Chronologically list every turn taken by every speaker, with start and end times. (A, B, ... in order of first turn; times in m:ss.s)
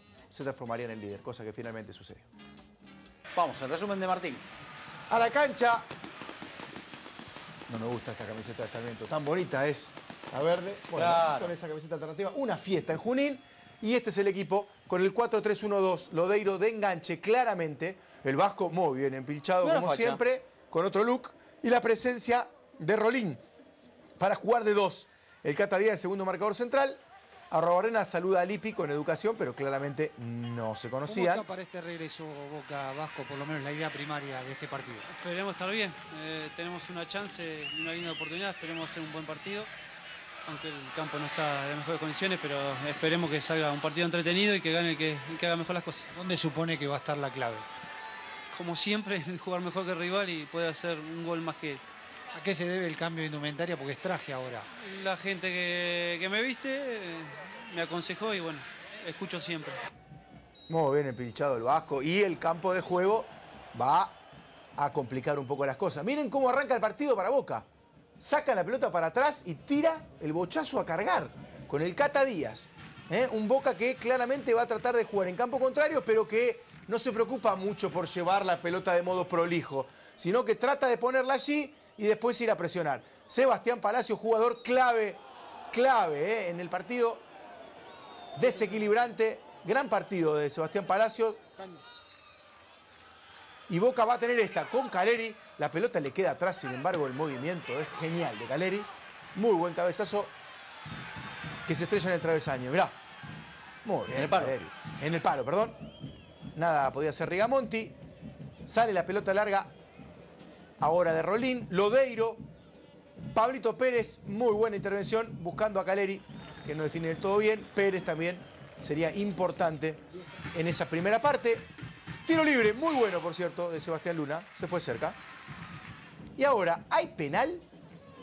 0:00.3-0:02.3 A
0:03.3-0:04.4 B
0:05.1-0:05.9 A
0:07.7-0:23.4 A
0:10.9-0:11.5 B
0:19.6-0:20.2 B
0:24.2-0:31.4 A
0:31.0-0:35.0 C
0:35.1-0:39.7 D
0:40.4-0:46.1 D
0:46.1-0:47.7 C
0:48.5-0:51.8 D
0:52.3-0:54.6 C
0:54.7-0:59.8 D
1:00.7-1:04.2 A
1:04.8-1:07.6 A
1:08.2-1:27.2 A
1:28.4-1:31.4 A
1:33.7-1:40.3 A
1:41.6-1:43.0 A
1:43.8-1:45.8 A
1:44.1-1:44.6 B
1:46.5-1:48.0 A
1:48.6-1:49.7 A
1:50.8-1:52.4 A
1:53.3-2:00.0 A
2:00.5-2:01.7 A
2:02.2-2:05.2 A
2:06.4-2:07.6 A